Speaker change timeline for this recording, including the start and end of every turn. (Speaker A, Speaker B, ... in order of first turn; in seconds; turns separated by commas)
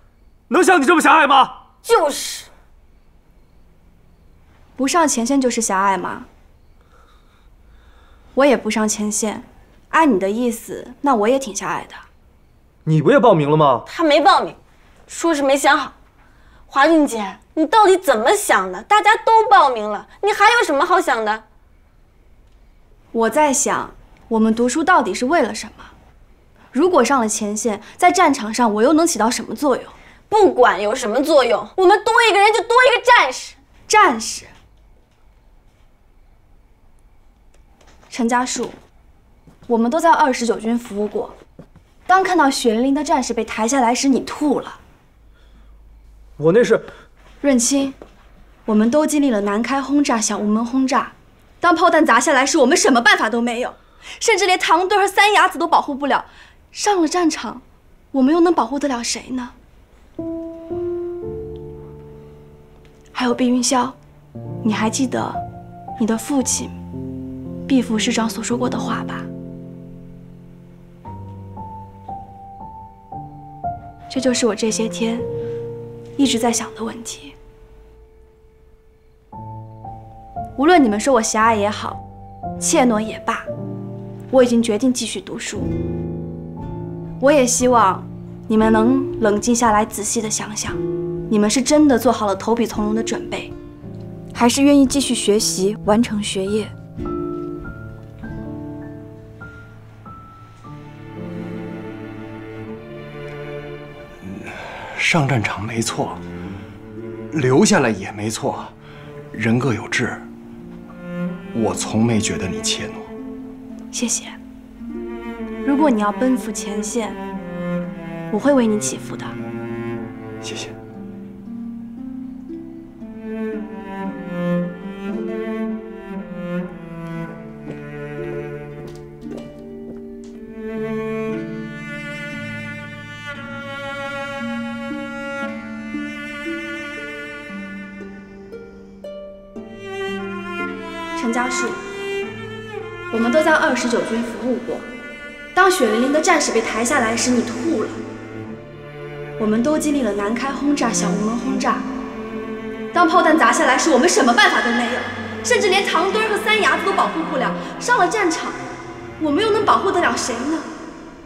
Speaker A: 0.5-1.6, Speaker B: 1.8-2.5, Speaker C: 4.8-6.3, Speaker C: 8.3-12.0, Speaker A: 12.8-13.9, Speaker B: 13.9-14.6, Speaker B: 15.1-15.9, Speaker B: 16.7-21.4, Speaker C: 23.1-25.9, Speaker C: 26.7-29.9, Speaker B: 30.3-33.6, Speaker C: 33.9-34.5, Speaker C: 38.1-38.8, Speaker C: 39.7-41.4, Speaker C: 42.1-44.8, Speaker A: 46.4-46.9, Speaker C: 47.4-48.0, Speaker C: 48.7-59.5, Speaker C: 63.1-64.0, Speaker C: 64.6-65.4, Speaker C: 66.0-66.8, Speaker C: 67.7-69.3, Speaker C: 74.1-75.3, Speaker C: 76.2-77.3, Speaker C: 80.6-82.0, Speaker C: 82.6-83.5, Speaker C: 84.3-85.7, Speaker C: 87.2-93.5, Speaker C: 94.3-96.7, Speaker D: 104.2-106.2, Speaker D: 107.3-108.7, Speaker D: 109.3-110.3, Speaker D: 111.5-113.1, Speaker C: 113.9-114.4, Speaker C: 115.6-117.2, Speaker C: 118.3-119.3, Speaker D: 120.4-120.8, Speaker C: 141.2-141.8, Speaker C: 143.1-144.9, Speaker C: 145.5-148.0, Speaker C: 149.4-151.8, Speaker C: 152.9-158.6, Speaker C: 159.2-160.7